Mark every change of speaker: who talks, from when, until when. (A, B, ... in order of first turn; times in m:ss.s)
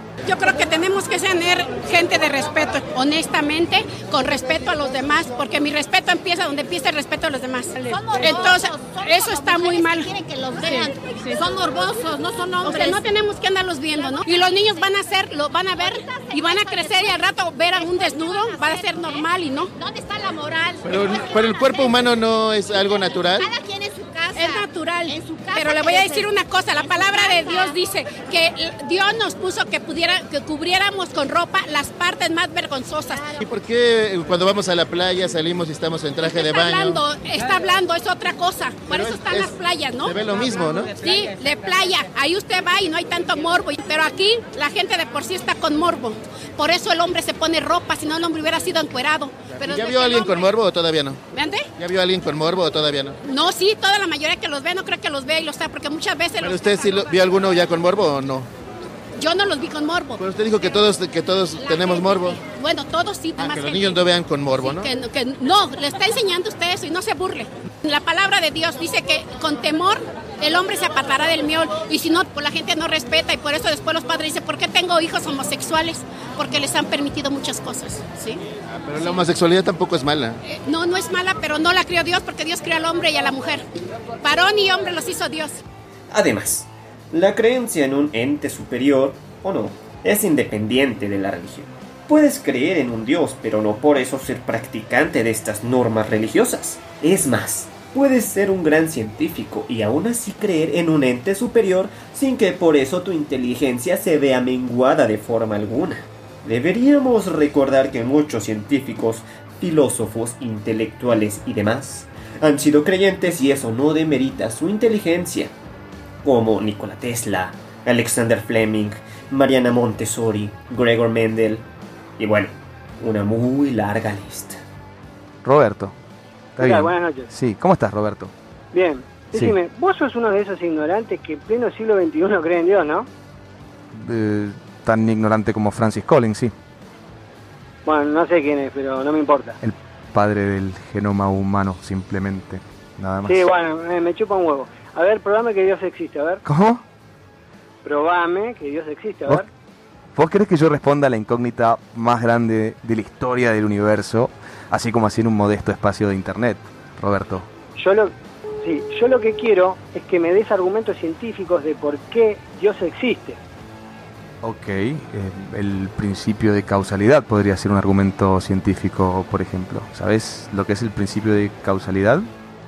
0:00.2-0:10.9 A
0:07.8-0:13.1 B
0:12.6-0:19.7 A
0:14.0-0:14.5 B
0:15.8-0:22.2 B
0:20.8-0:23.5 C
0:23.4-0:27.8 B
0:24.3-0:33.3 A
0:33.4-0:37.0 C
0:36.2-0:40.2 A
0:38.9-0:40.9 C
0:40.8-0:50.5 A
0:49.5-0:51.2 C
0:51.3-0:51.7 A
0:51.8-0:53.2 C
0:53.2-0:57.1 A
0:56.4-0:58.5 C
0:59.2-1:00.2 A
1:00.2-1:02.4 C
1:01.6-1:04.0 A
1:03.4-1:04.9 C
1:04.6-1:18.4 A
1:18.8-1:20.4 C
1:20.5-1:23.6 A
1:24.2-1:25.6 A
1:26.1-1:55.5 D
1:56.2-2:04.6 D
2:05.4-2:05.9 E
2:06.6-2:07.3 F
2:06.6-2:08.3 E
2:08.7-2:13.1 F
2:13.9-2:16.5 E
2:17.8-2:19.6 F
2:19.6-2:23.4 E
2:23.2-2:26.4 F
2:26.4-2:26.8 E
2:27.8-2:29.5 F
2:30.1-2:37.5 E
2:37.8-2:43.4 F
2:44.4-2:52.3 E